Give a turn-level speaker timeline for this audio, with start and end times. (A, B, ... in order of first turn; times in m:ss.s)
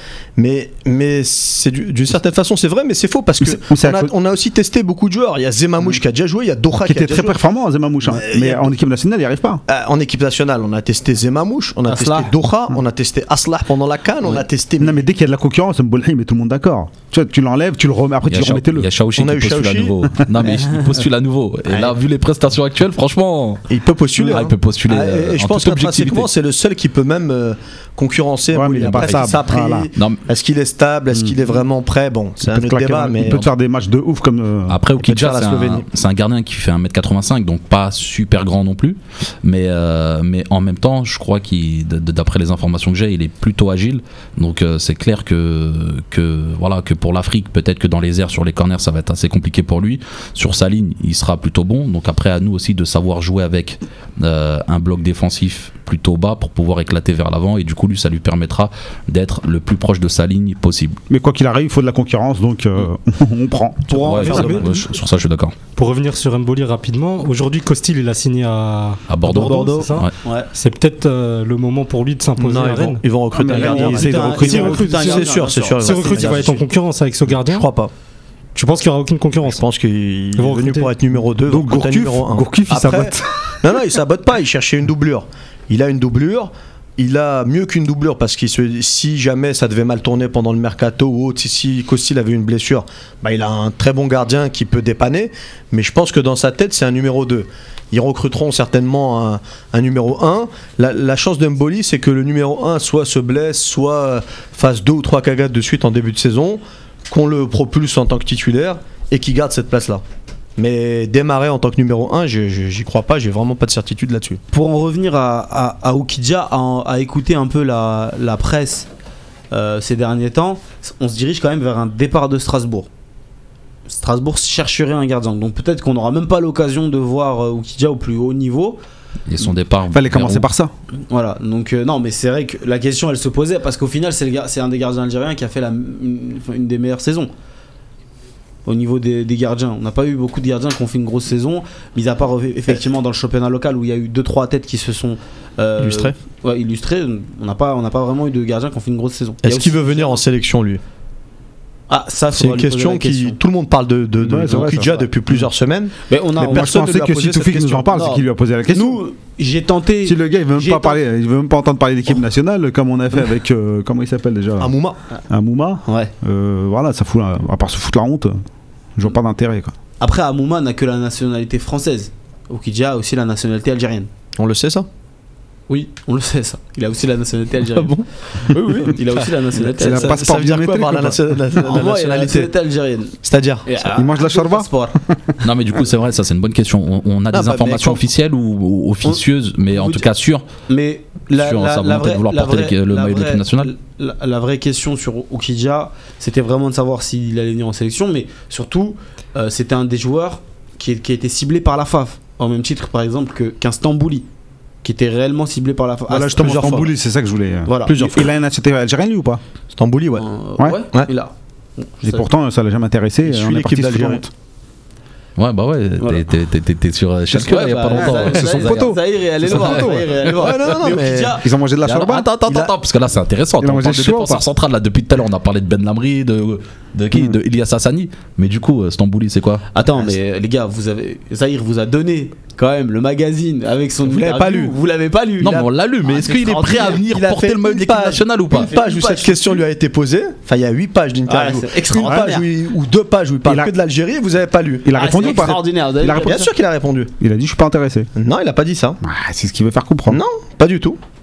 0:00.4-0:07.4 A
0:03.4-0:04.1 B
0:06.7-0:09.6 B
0:08.0-0:08.7 A
0:09.7-0:15.0 A
0:11.9-0:12.3 C
0:14.8-0:18.9 B
0:18.3-0:23.6 D
0:19.2-0:19.9 A
0:20.5-0:20.8 C
0:23.7-0:33.4 A
0:24.2-0:26.3 D
0:28.5-0:29.9 B
0:29.0-0:29.3 D
0:29.9-0:30.2 D
0:32.4-0:34.8 B
0:33.2-0:33.5 D
0:34.7-1:01.0 D
0:35.0-0:35.8 A
1:01.1-1:04.5 B
1:03.9-1:04.7 C
1:04.0-1:05.6 D
1:04.2-1:04.7 E
1:05.8-1:17.7 E
1:09.1-1:10.1 D
1:09.5-1:10.5 C
1:12.4-1:16.7 A
1:13.4-1:14.9 B
1:13.5-1:16.4 C
1:17.3-1:17.9 A
1:18.6-1:19.6 E
1:19.4-1:50.0 A
1:20.4-1:20.9 E
1:21.5-1:23.6 B
1:50.6-1:54.4 A
1:54.5-1:58.9 C
1:59.5-2:02.9 C
2:03.9-2:08.8 C
2:09.3-2:10.5 D
2:09.9-2:10.7 B
2:11.1-2:17.3 C
2:18.7-2:30.2 C
2:25.8-2:26.1 A
2:29.4-2:30.8 A
2:31.9-2:33.4 C
2:32.3-2:38.1 A
2:34.2-2:35.4 B
2:34.5-2:35.1 C
2:36.1-2:36.9 C
2:36.4-2:39.0 B
2:37.9-2:41.0 C
2:40.0-2:44.7 B
2:44.6-2:45.0 A
2:45.3-2:48.4 B
2:45.8-2:46.1 C
2:49.0-2:49.7 B
2:50.0-2:54.1 C
2:54.4-2:54.9 A
2:55.7-3:00.2 C
2:57.8-2:59.0 A
2:59.6-3:02.5 A
2:59.8-3:01.4 B
3:01.6-3:05.0 C
3:03.2-3:03.7 A
3:04.0-3:05.4 B
3:05.4-3:10.4 D
3:07.3-3:08.0 A
3:09.7-3:10.1 C
3:10.7-3:24.2 C
3:11.4-3:13.7 D
3:24.8-3:26.8 C
3:26.1-3:29.4 B
3:26.4-3:26.9 A
3:27.7-3:28.0 C
3:27.9-3:28.2 A
3:29.7-3:30.3 A
3:30.2-3:32.3 C
3:32.0-3:34.3 B
3:33.2-3:34.3 A
3:35.4-3:39.9 D
3:37.4-3:41.4 C
3:37.9-3:40.1 B
3:40.3-3:41.4 A
3:41.4-3:42.7 B
3:41.8-3:49.6 D
3:43.6-3:44.5 B
3:49.7-3:57.0 C
3:54.0-3:54.7 A
3:55.4-3:58.7 D
3:56.9-4:04.9 A
3:58.6-3:59.6 C
4:01.3-4:02.5 C
4:02.0-4:02.3 B
4:03.4-4:03.7 B
4:04.8-4:06.3 B
4:05.0-4:06.5 C
4:06.2-4:07.1 A
4:07.2-4:08.1 B
4:08.2-4:09.0 A
4:09.0-4:10.2 B
4:10.1-4:11.0 A